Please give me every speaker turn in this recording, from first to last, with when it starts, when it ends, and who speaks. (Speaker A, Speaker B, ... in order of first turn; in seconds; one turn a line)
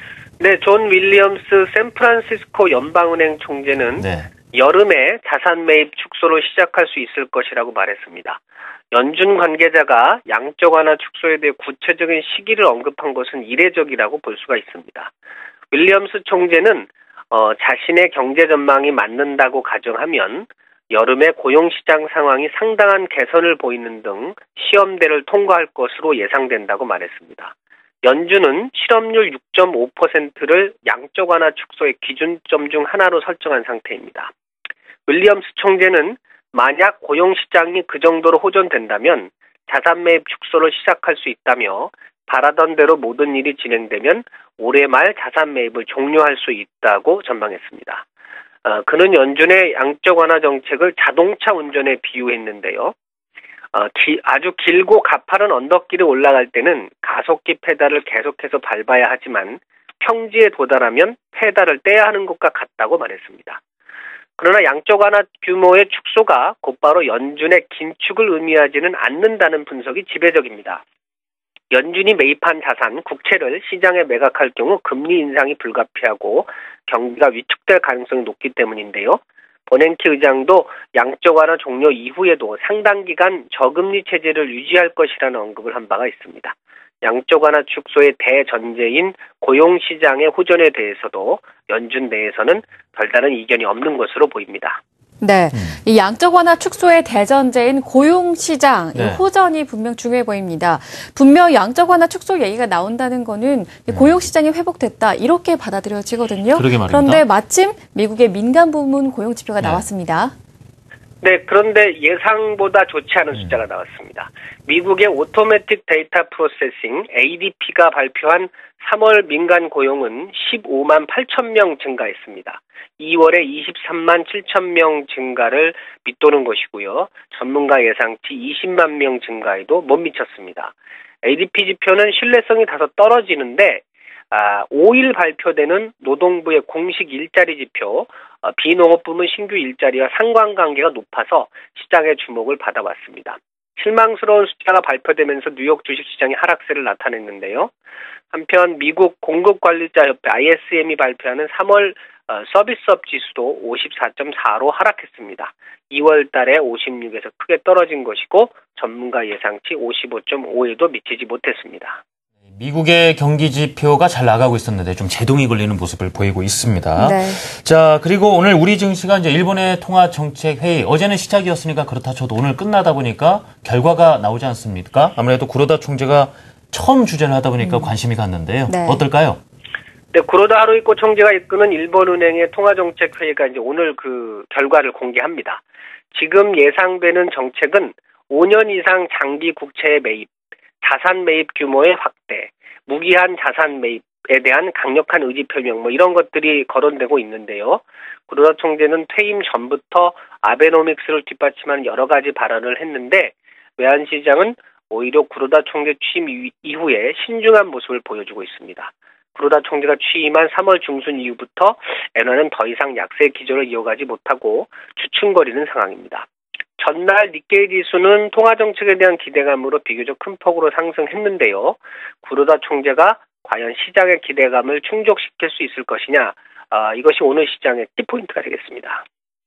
Speaker A: 0.4-8.4
Speaker B: 4.0-4.3
Speaker A: 8.9-15.1
Speaker A: 15.7-34.3
Speaker A: 35.1-48.0
Speaker A: 48.6-53.0
Speaker A: 53.7-63.6
Speaker A: 64.4-70.8
Speaker A: 71.7-94.8
Speaker C: 95.2-110.3
Speaker B: 99.0-99.2
Speaker B: 103.9-104.2
Speaker B: 106.5-107.2
Speaker B: 109.6-109.8
Speaker A: 111.2-147.7
Speaker A: 148.3-162.0
Speaker B: 162.5-179.4
Speaker C: 167.0-167.4
Speaker C: 178.7-179.0
Speaker A: 180.1-185.6
Speaker A: 186.1-190.3
Speaker A: 190.8-216.3
Speaker A: 216.8-229.0